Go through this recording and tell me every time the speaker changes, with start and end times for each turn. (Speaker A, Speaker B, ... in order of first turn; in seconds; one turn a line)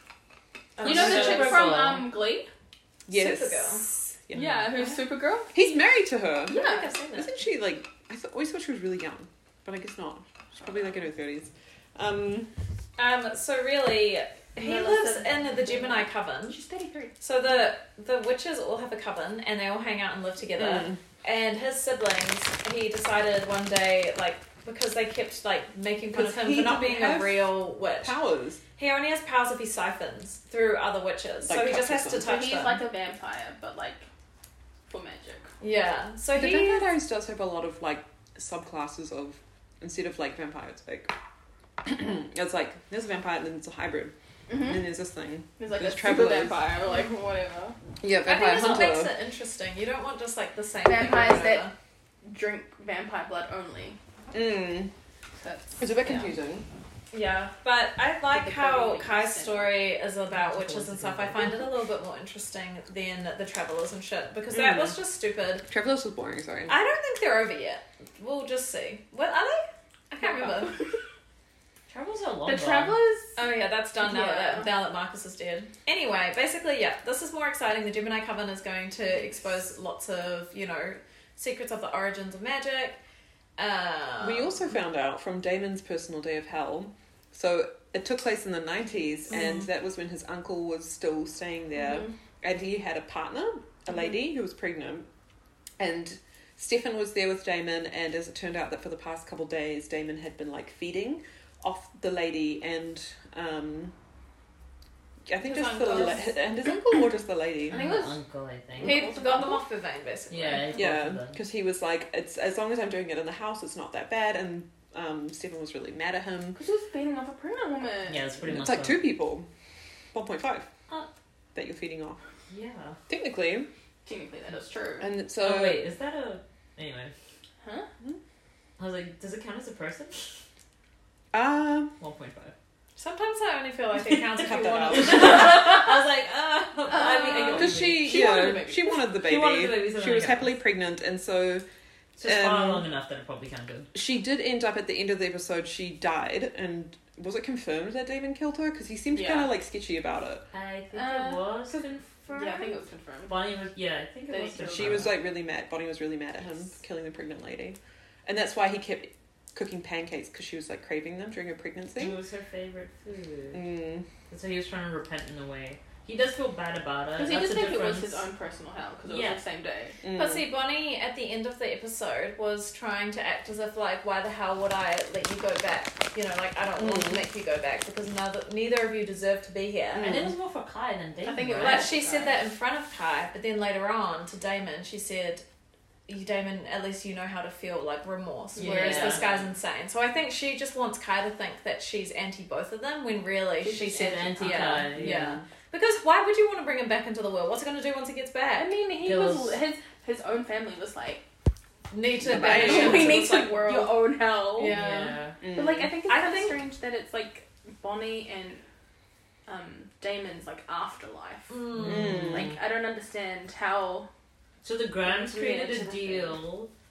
Speaker A: 0.8-1.7
Speaker B: 0.8-2.5
Speaker C: 0.8-2.1
Speaker D: 3.1-4.9
Speaker A: 3.1-3.9
Speaker B: 4.3-5.8
Speaker D: 5.5-12.5
Speaker A: 6.5-7.3
Speaker B: 6.5-6.9
Speaker B: 10.6-10.9
Speaker A: 13.0-16.6
Speaker B: 14.6-17.2
Speaker A: 17.2-28.2
Speaker D: 20.6-21.0
Speaker D: 26.1-28.6
Speaker A: 28.8-32.8
Speaker D: 31.4-32.3
Speaker B: 32.2-34.1
Speaker B: 34.9-35.5
Speaker A: 35.6-36.9
Speaker D: 36.3-41.1
Speaker D: 41.8-46.8
Speaker B: 44.5-45.0
Speaker B: 45.6-47.8
Speaker D: 48.0-49.1
Speaker A: 48.2-51.7
Speaker B: 50.8-51.7
Speaker B: 52.2-54.0
Speaker D: 54.3-54.9
Speaker B: 55.4-56.3
Speaker D: 55.8-56.7
Speaker A: 57.1-65.7
Speaker B: 58.3-59.9
Speaker C: 60.3-61.7
Speaker D: 64.5-65.0
Speaker D: 65.7-66.8
Speaker A: 66.7-70.8
Speaker C: 71.9-73.0
Speaker B: 72.5-74.8
Speaker A: 73.4-83.0
Speaker A: 83.6-84.6
Speaker D: 84.2-95.1
Speaker A: 89.3-89.7
Speaker B: 91.7-92.1
Speaker D: 95.8-103.9
Speaker D: 105.3-107.9
Speaker A: 105.5-106.3
Speaker B: 107.7-108.2
Speaker C: 107.7-109.1
Speaker D: 108.8-109.6
Speaker A: 108.8-110.8
Speaker C: 110.3-111.4
Speaker D: 110.7-116.6
Speaker B: 116.5-118.4
Speaker C: 118.1-119.1
Speaker D: 118.5-119.5
Speaker D: 120.1-120.7
Speaker D: 121.5-122.2
Speaker C: 122.5-123.0
Speaker D: 123.1-123.7
Speaker B: 124.0-125.1
Speaker D: 125.0-125.8
Speaker C: 125.4-127.1
Speaker B: 127.6-127.9
Speaker C: 128.8-130.3
Speaker D: 131.3-131.9
Speaker C: 132.0-132.6
Speaker A: 133.0-135.5
Speaker D: 134.2-135.6
Speaker C: 134.9-138.4
Speaker B: 136.9-139.1
Speaker D: 137.5-141.7
Speaker C: 139.1-140.6
Speaker C: 142.2-143.9
Speaker D: 142.2-142.9
Speaker D: 143.9-150.5
Speaker B: 149.1-149.6
Speaker C: 150.5-155.2
Speaker B: 150.9-151.6
Speaker B: 152.3-153.4
Speaker B: 154.3-155.1
Speaker D: 154.7-162.2
Speaker C: 162.0-163.7
Speaker D: 163.5-164.1
Speaker C: 164.3-168.2
Speaker B: 167.2-170.0
Speaker C: 169.1-169.4
Speaker D: 170.0-170.5
Speaker A: 170.1-180.2
Speaker D: 176.8-177.3
Speaker D: 179.9-180.3
Speaker C: 180.0-181.9
Speaker B: 181.2-182.4
Speaker A: 181.6-185.4
Speaker A: 186.1-198.7
Speaker B: 188.6-189.3
Speaker C: 188.6-189.4
Speaker B: 193.6-195.1
Speaker C: 193.8-195.2
Speaker D: 195.0-195.4
Speaker B: 198.5-201.2
Speaker C: 199.0-199.6
Speaker A: 201.9-204.0
Speaker D: 202.2-203.3
Speaker B: 202.3-208.6
Speaker A: 204.6-205.1
Speaker C: 204.6-205.4
Speaker D: 205.4-206.0
Speaker A: 206.1-206.6
Speaker B: 209.5-214.1
Speaker A: 211.5-212.3
Speaker C: 211.8-212.6
Speaker D: 211.8-212.5
Speaker C: 214.6-216.7
Speaker B: 215.0-216.4